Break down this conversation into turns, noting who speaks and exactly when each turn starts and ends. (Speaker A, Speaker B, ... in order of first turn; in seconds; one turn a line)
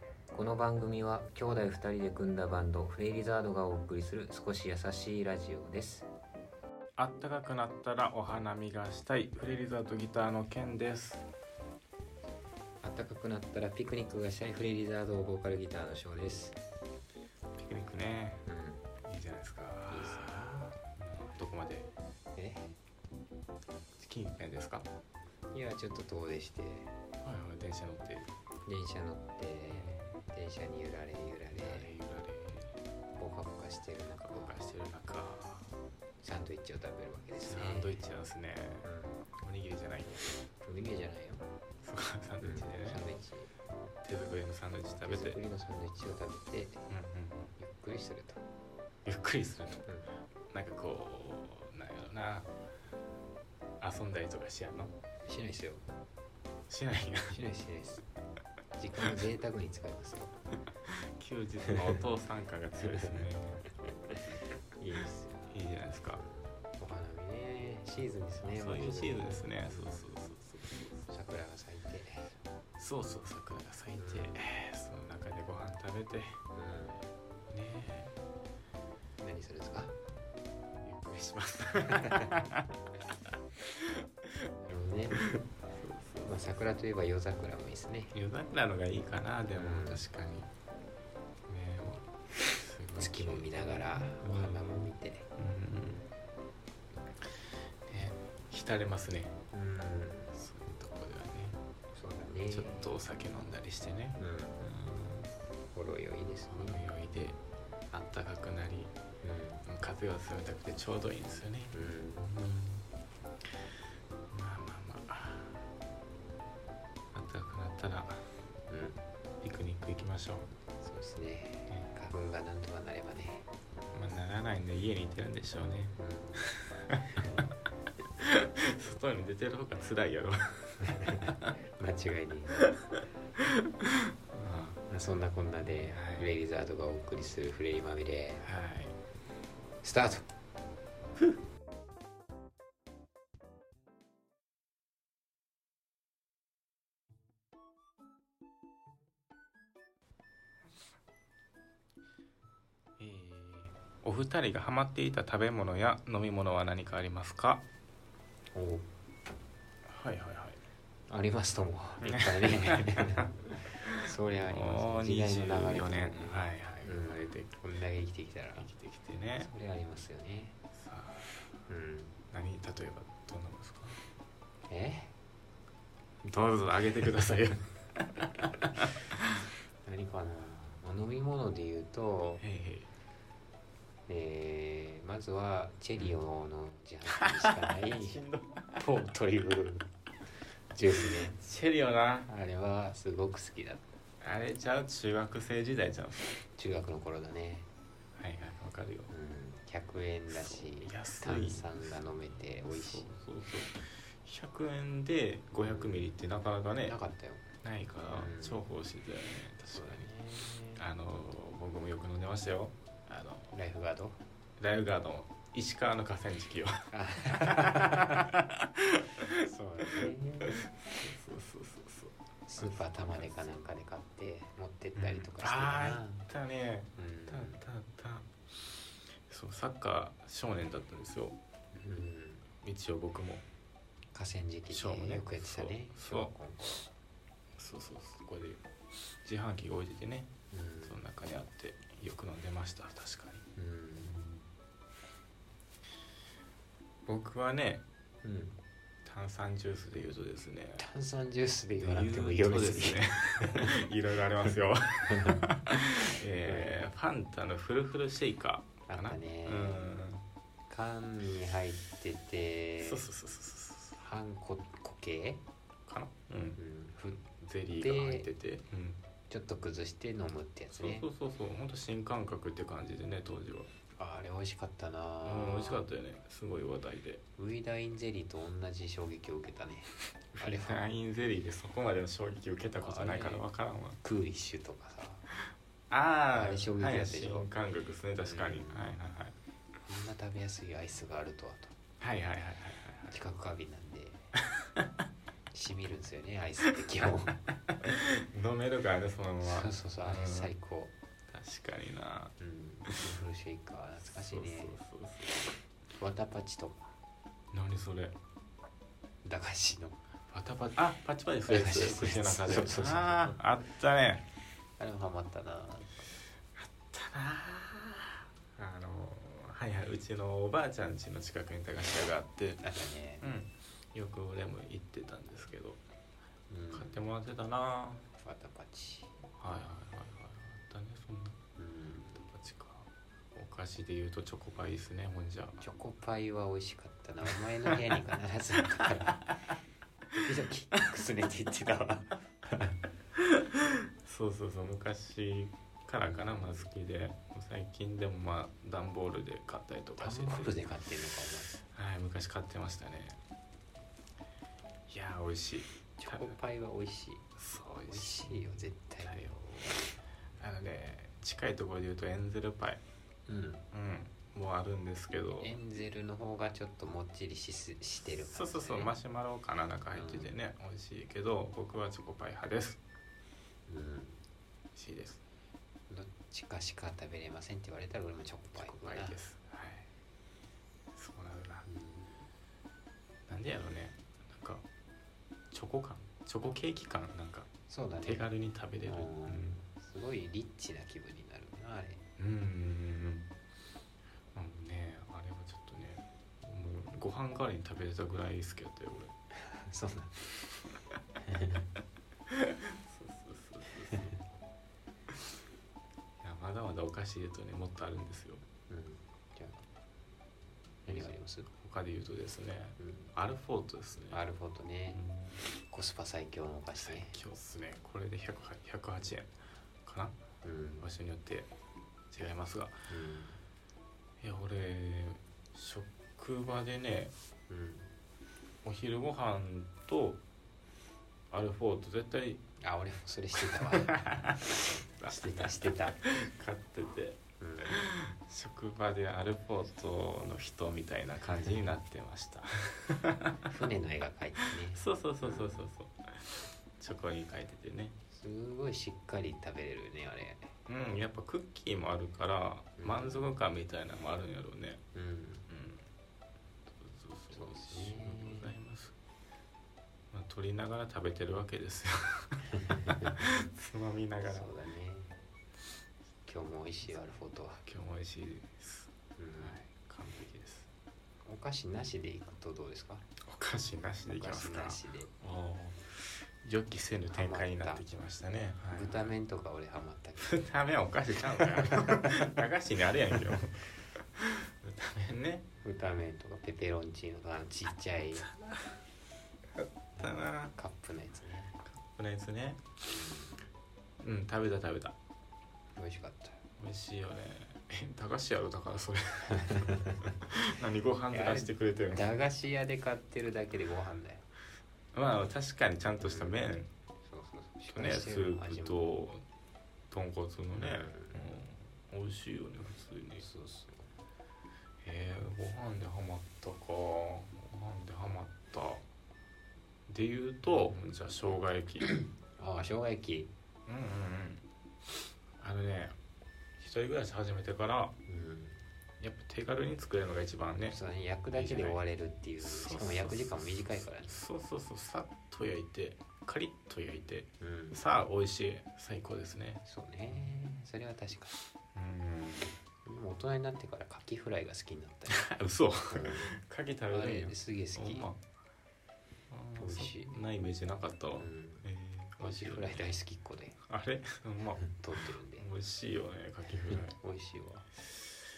Speaker A: 0.3-6.1
Speaker B: 7.0-11.2
Speaker A: 12.8-16.6
Speaker B: 17.6-18.4
Speaker A: 18.5-18.9
Speaker B: 19.1-21.9
Speaker A: 19.9-20.7
Speaker A: 22.4-22.7
Speaker B: 24.0-24.9
Speaker A: 25.5-26.9
Speaker B: 27.2-28.3
Speaker A: 28.6-31.9
Speaker B: 29.8-30.1
Speaker B: 31.5-32.7
Speaker A: 33.2-34.6
Speaker B: 34.2-35.7
Speaker A: 36.2-38.0
Speaker B: 37.4-38.9
Speaker A: 38.8-39.3
Speaker B: 39.4-40.4
Speaker A: 40.6-41.5
Speaker B: 41.8-43.1
Speaker A: 42.4-43.5
Speaker B: 44.0-45.4
Speaker A: 45.0-46.8
Speaker B: 46.9-47.5
Speaker A: 47.6-48.4
Speaker B: 49.0-49.9
Speaker B: 50.5-52.5
Speaker B: 53.8-54.9
Speaker A: 55.2-55.9
Speaker B: 56.7-57.4
Speaker A: 57.3-58.0
Speaker A: 58.8-60.4
Speaker B: 60.8-63.7
Speaker A: 64.8-65.6
Speaker B: 65.5-66.2
Speaker A: 66.2-70.3
Speaker B: 68.4-71.1
Speaker A: 71.1-72.3
Speaker B: 72.8-76.4
Speaker A: 74.0-74.4
Speaker A: 76.5-77.0
Speaker B: 77.5-78.2
Speaker A: 79.2-80.0
Speaker B: 80.8-82.8
Speaker A: 81.9-82.3
Speaker B: 83.6-84.3
Speaker A: 84.6-85.2
Speaker B: 85.1-86.4
Speaker A: 86.2-88.1
Speaker B: 88.1-90.5
Speaker A: 89.5-90.0
Speaker B: 91.5-96.1
Speaker A: 93.0-95.3
Speaker B: 97.9-99.4
Speaker A: 99.5-100.3
Speaker B: 100.3-101.6
Speaker A: 101.9-102.9
Speaker B: 102.5-105.3
Speaker A: 104.2-104.6
Speaker A: 105.7-106.8
Speaker B: 106.5-107.4
Speaker B: 107.9-109.0
Speaker A: 109.2-109.6
Speaker B: 109.6-112.8
Speaker A: 111.7-112.2
Speaker B: 114.3-115.6
Speaker B: 117.1-118.3
Speaker A: 118.7-119.0
Speaker B: 119.4-120.5
Speaker A: 120.8-123.5
Speaker B: 123.9-127.5
Speaker A: 126.0-126.5
Speaker A: 127.1-127.4
Speaker B: 128.2-131.5
Speaker A: 130.9-132.7
Speaker B: 132.6-134.8
Speaker A: 134.9-138.4
Speaker B: 135.9-136.3
Speaker B: 138.4-139.0
Speaker A: 139.8-140.3
Speaker B: 153.0-157.7
Speaker A: 158.5-158.9
Speaker B: 159.9-160.6
Speaker A: 161.1-163.3
Speaker B: 162.0-167.5
Speaker A: 164.0-168.7
Speaker B: 168.6-169.5
Speaker A: 169.4-170.6
Speaker B: 170.7-171.3
Speaker A: 171.7-172.2
Speaker B: 172.3-174.0
Speaker A: 174.7-175.1
Speaker B: 176.2-179.3
Speaker A: 179.8-182.4
Speaker B: 182.4-182.9
Speaker A: 184.1-188.2
Speaker B: 187.1-188.9
Speaker A: 188.8-189.9
Speaker A: 190.7-191.4
Speaker B: 191.0-192.3
Speaker A: 192.3-193.8
Speaker B: 194.2-196.4
Speaker A: 196.6-197.7
Speaker B: 198.2-199.1
Speaker A: 199.1-203.1
Speaker B: 200.3-207.0
Speaker A: 205.6-206.1
Speaker A: 206.8-207.5
Speaker B: 207.6-210.1
Speaker A: 208.1-208.6
Speaker A: 209.7-210.9
Speaker B: 210.7-213.6
Speaker A: 213.5-214.2
Speaker B: 214.6-223.6
Speaker A: 216.9-218.3
Speaker A: 219.3-220.7
Speaker A: 222.5-226.3
Speaker B: 225.0-228.3
Speaker A: 227.0-227.6
Speaker B: 229.3-231.4
Speaker A: 231.7-232.4
Speaker B: 232.6-233.4
Speaker A: 234.1-236.8
Speaker B: 234.7-236.3
Speaker B: 237.6-240.3
Speaker A: 240.5-241.0
Speaker B: 240.8-243.4
Speaker A: 243.6-244.2
Speaker B: 244.0-244.5
Speaker B: 247.1-247.8
Speaker A: 248.2-248.6
Speaker B: 249.1-250.9
Speaker A: 250.8-253.8
Speaker B: 251.8-260.3
Speaker A: 255.1-255.4
Speaker A: 256.4-256.9
Speaker A: 258.9-259.9
Speaker A: 260.7-263.1
Speaker B: 262.8-264.0
Speaker A: 264.0-265.4
Speaker B: 265.9-269.0
Speaker A: 266.6-267.2
Speaker A: 267.8-268.3
Speaker A: 269.3-271.1
Speaker B: 270.7-273.7
Speaker A: 274.0-275.9
Speaker B: 275.2-277.2
Speaker A: 277.4-280.8
Speaker B: 280.3-284.0
Speaker A: 282.8-283.4
Speaker A: 284.0-285.3
Speaker B: 285.9-289.3
Speaker A: 286.3-287.5
Speaker A: 288.2-288.9
Speaker A: 289.8-291.8
Speaker B: 292.0-293.1
Speaker A: 293.1-294.3
Speaker B: 294.6-294.9
Speaker A: 295.5-297.4
Speaker B: 297.7-300.5
Speaker A: 299.4-300.9
Speaker B: 301.3-302.3
Speaker A: 302.4-304.8
Speaker B: 302.9-303.1
Speaker B: 304.0-305.6
Speaker A: 305.9-306.9
Speaker B: 307.5-308.1
Speaker A: 309.2-310.0
Speaker B: 310.3-314.2
Speaker A: 311.5-313.5
Speaker A: 314.8-316.1
Speaker B: 316.6-322.7
Speaker A: 322.6-323.4
Speaker B: 323.2-325.8
Speaker A: 326.5-327.0
Speaker B: 326.7-328.1
Speaker A: 328.2-329.1
Speaker B: 329.4-331.4
Speaker A: 331.6-332.2
Speaker B: 332.2-335.6
Speaker A: 335.6-339.2
Speaker B: 338.8-339.3
Speaker A: 340.1-342.8
Speaker B: 343.2-350.8
Speaker A: 346.0-346.7
Speaker A: 350.0-351.5
Speaker B: 351.5-353.2
Speaker B: 354.9-356.4
Speaker A: 356.0-357.3
Speaker B: 357.4-359.8
Speaker A: 357.9-359.4
Speaker B: 360.4-362.8
Speaker A: 363.3-363.6
Speaker B: 363.7-365.6
Speaker A: 365.4-368.9
Speaker B: 368.0-372.8
Speaker A: 369.9-370.3
Speaker A: 373.7-374.2
Speaker B: 374.8-375.2
Speaker A: 375.9-379.2
Speaker B: 378.6-379.9
Speaker B: 380.9-381.7
Speaker A: 381.7-382.1
Speaker B: 383.3-384.7
Speaker B: 385.5-387.5
Speaker A: 387.7-388.3
Speaker B: 388.0-389.6
Speaker A: 388.8-392.1
Speaker B: 392.2-393.3
Speaker B: 394.3-399.1
Speaker A: 399.4-400.1
Speaker A: 401.2-401.7
Speaker B: 402.3-404.1
Speaker B: 406.2-408.4
Speaker A: 408.7-409.6
Speaker B: 410.9-414.2
Speaker A: 410.9-411.5
Speaker A: 412.8-413.1
Speaker A: 414.1-415.0
Speaker B: 414.9-415.4
Speaker A: 415.7-417.2
Speaker B: 416.8-419.3
Speaker B: 419.9-420.2
Speaker A: 420.4-420.9
Speaker B: 420.8-421.5
Speaker B: 422.1-422.9
Speaker A: 422.9-423.4
Speaker B: 424.2-427.1
Speaker A: 427.5-427.9
Speaker B: 428.6-430.2
Speaker B: 431.3-432.4
Speaker A: 432.6-434.3
Speaker B: 433.4-443.4
Speaker A: 435.1-436.0
Speaker A: 437.4-437.8
Speaker A: 441.3-441.6
Speaker A: 443.5-445.7
Speaker B: 444.4-448.0
Speaker A: 448.1-450.5
Speaker B: 450.7-454.8
Speaker A: 452.8-453.3
Speaker A: 454.9-455.5
Speaker B: 455.5-455.9
Speaker B: 456.7-458.9
Speaker A: 457.3-458.6
Speaker B: 460.1-464.5
Speaker A: 462.6-463.2
Speaker A: 464.2-465.2
Speaker A: 466.2-467.6
Speaker B: 467.6-470.7
Speaker A: 469.2-469.6
Speaker A: 471.2-473.1
Speaker B: 473.2-479.1
Speaker A: 474.1-475.1
Speaker A: 477.1-477.8
Speaker A: 478.7-480.3
Speaker B: 480.2-485.4
Speaker A: 481.4-481.8
Speaker A: 485.6-488.3
Speaker B: 488.2-488.8
Speaker B: 489.6-490.5
Speaker A: 490.0-491.6
Speaker B: 491.6-492.8
Speaker A: 492.9-493.5
Speaker B: 494.0-494.9
Speaker A: 495.8-496.4
Speaker B: 496.6-502.1
Speaker A: 499.4-500.1
Speaker A: 501.1-504.2
Speaker B: 504.9-506.7
Speaker A: 506.0-506.4
Speaker A: 507.0-508.8
Speaker B: 507.7-509.2
Speaker B: 509.9-513.2
Speaker A: 510.6-511.3
Speaker A: 513.2-513.9
Speaker B: 514.8-518.9
Speaker B: 519.9-521.9
Speaker A: 520.5-520.8
Speaker A: 521.9-523.3
Speaker B: 523.7-524.4
Speaker B: 525.4-526.0
Speaker B: 526.6-528.0
Speaker A: 528.1-528.6
Speaker B: 529.0-530.8
Speaker A: 530.7-534.2
Speaker B: 531.3-531.8
Speaker B: 532.4-540.6
Speaker A: 537.4-537.8
Speaker A: 539.6-541.3
Speaker B: 541.7-542.5
Speaker A: 542.9-545.2
Speaker B: 545.1-548.2
Speaker A: 545.9-546.4
Speaker A: 546.9-548.1
Speaker B: 549.3-553.0
Speaker A: 549.6-550.2
Speaker A: 551.2-551.6
Speaker A: 552.2-553.6
Speaker B: 553.6-557.0
Speaker A: 554.7-555.5
Speaker A: 556.7-557.7